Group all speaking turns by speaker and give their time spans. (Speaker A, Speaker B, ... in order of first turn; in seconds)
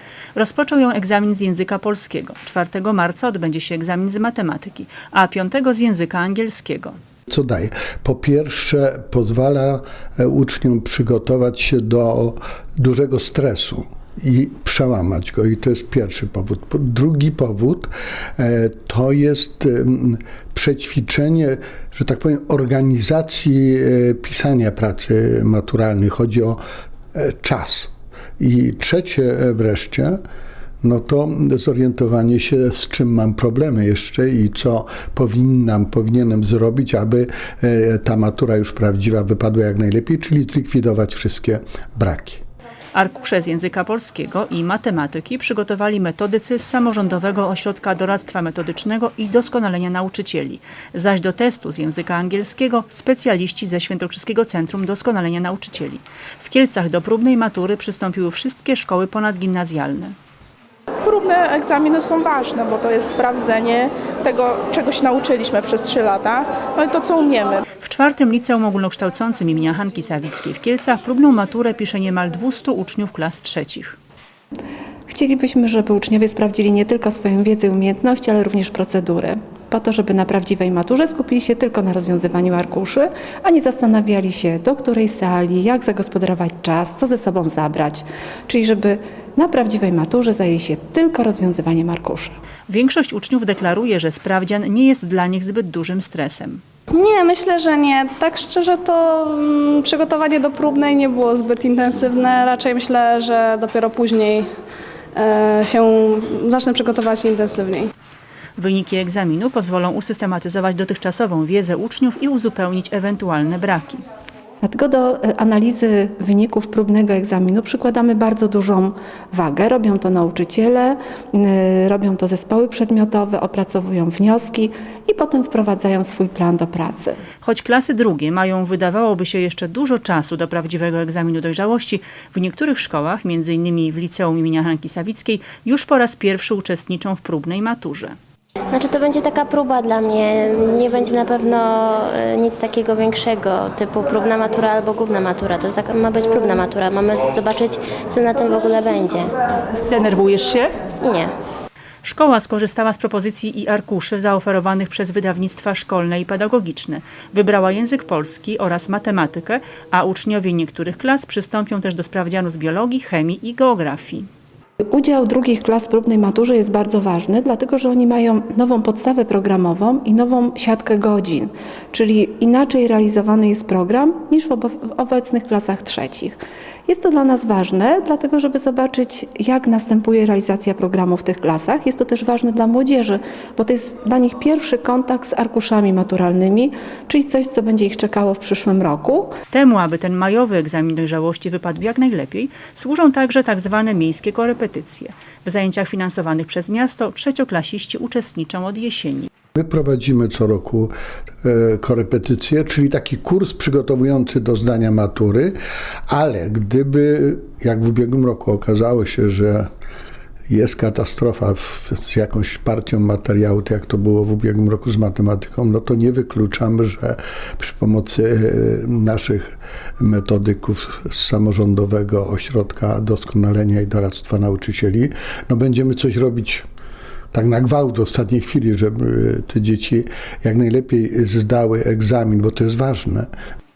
Speaker A: 0.3-7.0, 42.9-60.1, 67.8-74.0, 92.7-96.6, 108.6-114.0, 127.4-138.2, 149.9-150.8, 152.0-164.3, 189.5-199.3
Speaker B: 7.3-26.6, 27.1-30.2, 30.8-42.4, 199.5-200.9, 201.4-205.6, 206.1-209.7, 210.5-226.6, 227.3-233.3
Speaker C: 61.0-67.6
Speaker D: 75.1-92.4, 114.6-127.2, 164.9-189.3
Speaker E: 96.9-104.5, 105.1-107.9
Speaker F: 138.7-149.3, 151.0-151.3